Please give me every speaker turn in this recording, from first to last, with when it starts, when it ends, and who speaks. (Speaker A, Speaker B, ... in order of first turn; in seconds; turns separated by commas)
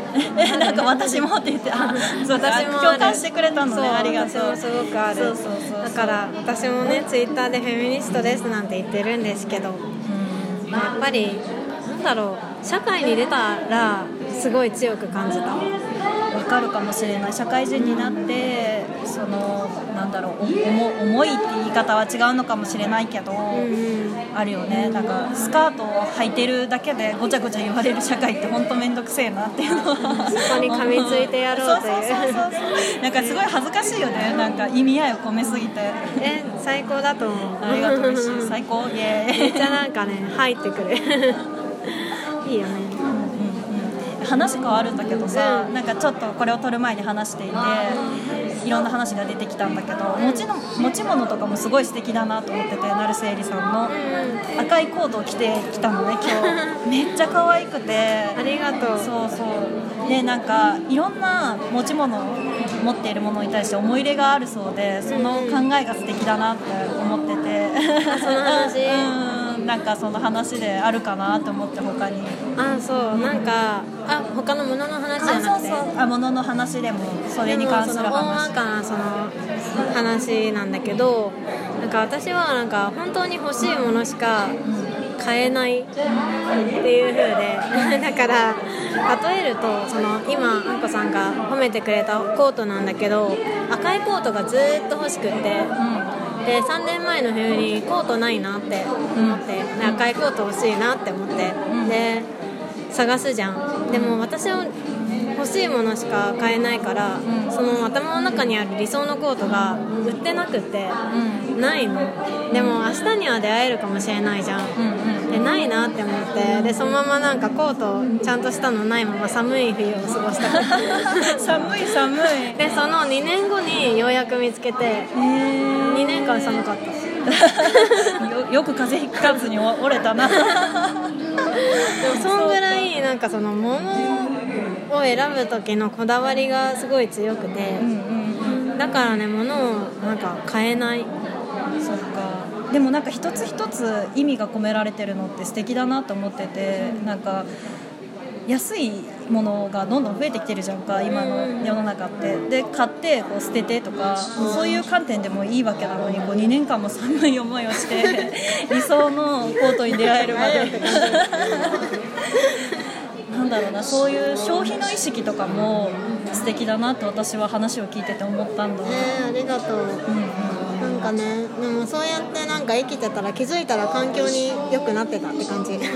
Speaker A: 0.1-6.2, Speaker B: 0.4-1.3, Speaker B: 1.8-9.8, Speaker A: 10.1-10.7, Speaker B: 10.7-15.7, Speaker A: 16.3-23.7, Speaker B: 17.8-18.3, Speaker B: 23.5-25.1, Speaker A: 24.3-36.1, Speaker B: 30.1-32.4, Speaker B: 36.2-38.5, Speaker A: 37.6-39.8, Speaker B: 39.4-43.0, Speaker A: 43.1-48.0, Speaker B: 45.3-45.7, Speaker A: 48.6-53.9, Speaker B: 50.2-50.5, Speaker B: 53.9-54.5, Speaker A: 54.6-58.4, Speaker B: 56.3-56.8, Speaker B: 58.4-59.1, Speaker A: 59.0-72.4, Speaker B: 65.1-65.7, Speaker B: 68.1-69.1, Speaker B: 72.6-75.9, Speaker A: 73.1-73.5, Speaker A: 75.2-78.5, Speaker B: 77.5-79.3, Speaker B: 79.9-84.6, Speaker A: 84.7-85.0, Speaker B: 85.2-85.9, Speaker B: 86.8-95.8, Speaker A: 87.8-88.1, Speaker A: 95.8-96.1, Speaker B: 96.4-102.3, Speaker A: 99.2-100.0, Speaker A: 101.7-102.0, Speaker B: 102.9-104.8, Speaker A: 103.9-104.2, Speaker B: 105.3-111.0, Speaker A: 107.2-107.6, Speaker A: 111.1-111.5, Speaker B: 111.5-121.4, Speaker A: 112.5-112.8, Speaker A: 114.8-115.4, Speaker A: 120.5-122.6, Speaker B: 122.5-125.1, Speaker A: 125.1-126.6, Speaker B: 125.8-127.0, Speaker A: 127.3-131.1, Speaker B: 127.6-128.2, Speaker B: 130.3-130.7, Speaker B: 131.5-137.9, Speaker A: 132.0-132.9, Speaker A: 137.8-138.7, Speaker B: 138.6-141.1, Speaker A: 141.8-147.5, Speaker A: 148.5-162.0, Speaker B: 151.1-151.8, Speaker B: 157.8-158.3, Speaker B: 159.8-162.8, Speaker A: 163.3-169.1, Speaker B: 168.8-170.1, Speaker A: 170.1-170.8, Speaker B: 170.8-175.8